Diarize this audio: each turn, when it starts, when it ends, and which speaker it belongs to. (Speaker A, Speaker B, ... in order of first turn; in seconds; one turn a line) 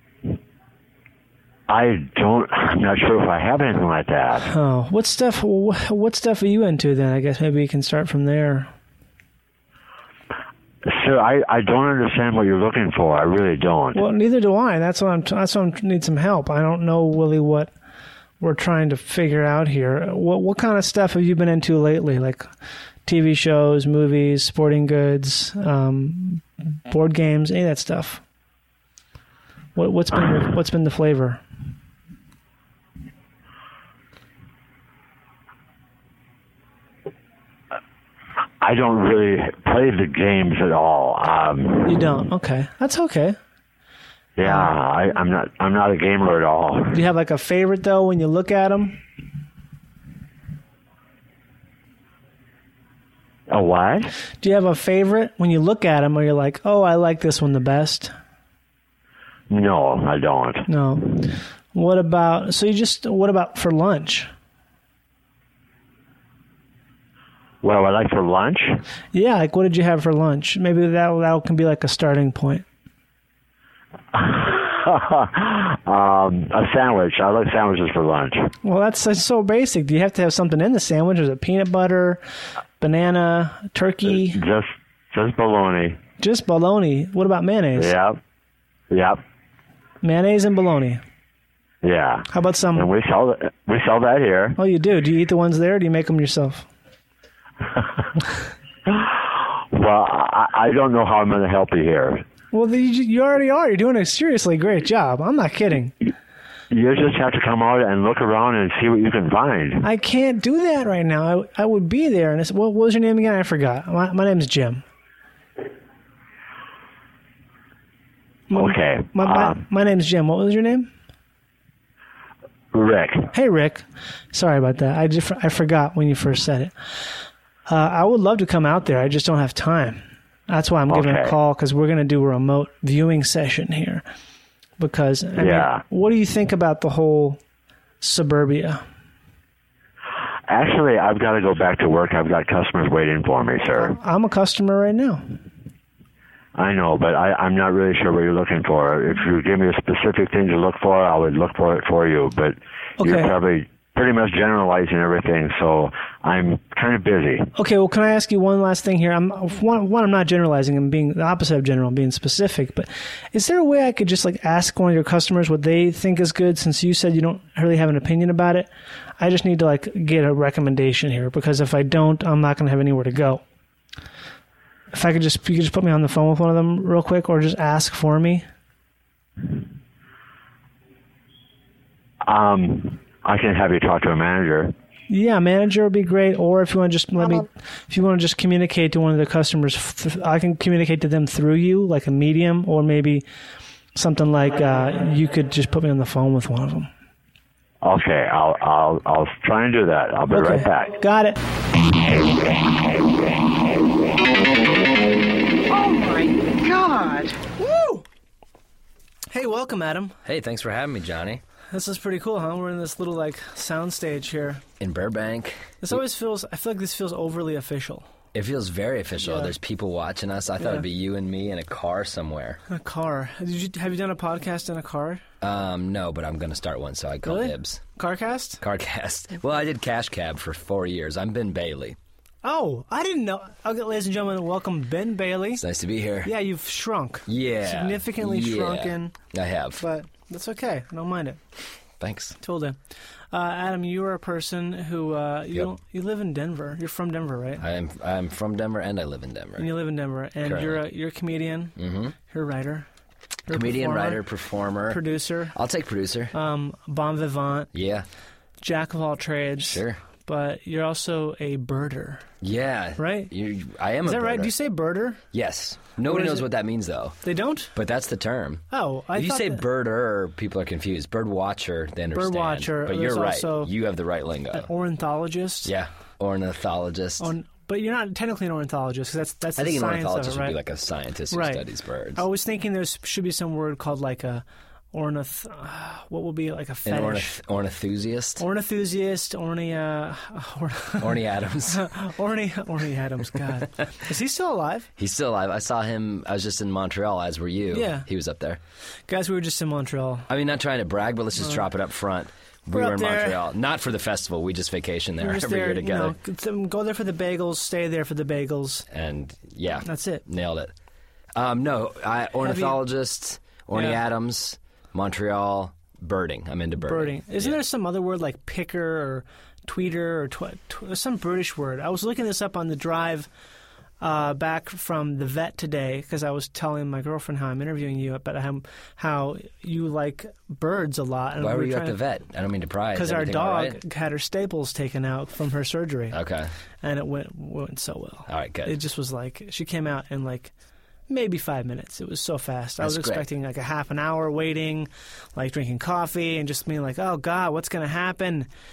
Speaker A: 1.7-4.5
Speaker B: 4.5-8.7
Speaker A: 10.8-14.0
Speaker B: 13.9-17.7
Speaker B: 18.4-22.5
Speaker B: 23.1-28.2
Speaker B: 29.8-31.4
Speaker A: 38.6-42.0
Speaker B: 41.9-43.4
Speaker A: 44.4-47.0
Speaker B: 44.5-44.7
Speaker B: 46.9-49.0
Speaker A: 53.5-54.1
Speaker B: 54.4-58.1
Speaker A: 59.5-60.7
Speaker B: 60.7-61.1
Speaker B: 61.7-64.3
Speaker A: 67.6-68.8
Speaker B: 69.1-72.7
Speaker A: 74.1-78.5
Speaker B: 78.6-82.2
Speaker B: 82.8-84.4
Speaker A: 84.3-86.0
Speaker B: 86.2-88.0
Speaker A: 87.8-88.2
Speaker A: 88.9-89.2
Speaker B: 90.0-91.0
Speaker A: 91.8-94.6
Speaker B: 92.3-92.9
Speaker B: 94.6-96.7
Speaker A: 98.9-102.2
Speaker B: 102.5-106.0
Speaker A: 106.7-109.8
Speaker B: 109.8-114.8
Speaker B: 118.5-120.9
Speaker A: 118.5-119.6
Speaker A: 122.7-123.3
Speaker B: 123.3-127.1
Speaker B: 127.7-134.1
Speaker A: 130.9-131.3
Speaker B: 134.8-137.4
Speaker A: 135.4-135.8
Speaker B: 138.0-138.8
Speaker A: 140.5-143.9
Speaker B: 143.8-145.3
Speaker A: 146.6-157.5
Speaker B: 153.0-153.3
Speaker B: 157.6-173.4
Speaker B: 174.9-178.5
Speaker A: 182.2-184.7
Speaker B: 185.1-193.3
Speaker B: 193.9-196.9
Speaker A: 197.8-201.0
Speaker B: 200.3-201.4
Speaker B: 205.7-208.1
Speaker B: 209.3-210.2
Speaker C: 210.2-211.4
Speaker B: 211.7-214.6
Speaker C: 214.8-216.0
Speaker B: 215.8-218.1
Speaker C: 218.3-222.6
Speaker B: 219.2-219.6
Speaker B: 220.6-220.8
Speaker B: 222.7-225.2
Speaker C: 225.4-227.8
Speaker B: 227.2-228.6
Speaker C: 228.6-232.0
Speaker B: 232.4-235.6
Speaker C: 235.6-236.3
Speaker B: 236.2-239.2
Speaker C: 237.3-239.8
Speaker B: 239.8-241.4
Speaker C: 242.0-242.4
Speaker B: 242.4-242.8
Speaker B: 243.3-247.7
Speaker C: 247.6-249.7
Speaker B: 249.6-251.8
Speaker C: 250.4-250.8
Speaker C: 251.8-252.1
Speaker B: 252.3-252.9
Speaker B: 253.5-254.2
Speaker C: 253.5-256.3
Speaker B: 254.9-255.6
Speaker B: 256.3-257.7
Speaker C: 257.7-258.1
Speaker B: 258.6-262.3
Speaker C: 259.6-260.0
Speaker C: 262.4-264.5
Speaker B: 263.0-263.3
Speaker B: 264.0-265.2
Speaker C: 265.3-267.2
Speaker B: 266.0-266.5
Speaker B: 267.2-267.7
Speaker C: 267.8-274.7
Speaker B: 268.7-269.6
Speaker B: 272.1-273.7
Speaker B: 274.5-275.7
Speaker C: 275.6-277.3
Speaker B: 277.2-280.6
Speaker C: 279.6-282.2
Speaker B: 281.3-287.4
Speaker C: 286.9-288.4
Speaker B: 288.4-294.9
Speaker C: 291.0-291.9
Speaker C: 295.0-298.6
Speaker B: 297.7-298.1
Speaker B: 299.1-300.3
Speaker C: 300.3-306.1
Speaker B: 301.4-301.6
Speaker B: 302.7-303.4
Speaker B: 305.2-308.9
Speaker C: 308.9-310.7
Speaker B: 309.8-310.2
Speaker C: 311.4-317.6
Speaker B: 312.4-312.8
Speaker B: 313.7-314.0
Speaker B: 316.8-323.3
Speaker B: 324.0-332.0
Speaker C: 331.4-333.8
Speaker B: 332.9-336.2
Speaker C: 336.1-336.5
Speaker B: 336.8-340.5
Speaker C: 338.3-338.8
Speaker B: 341.1-348.5
Speaker C: 342.8-343.3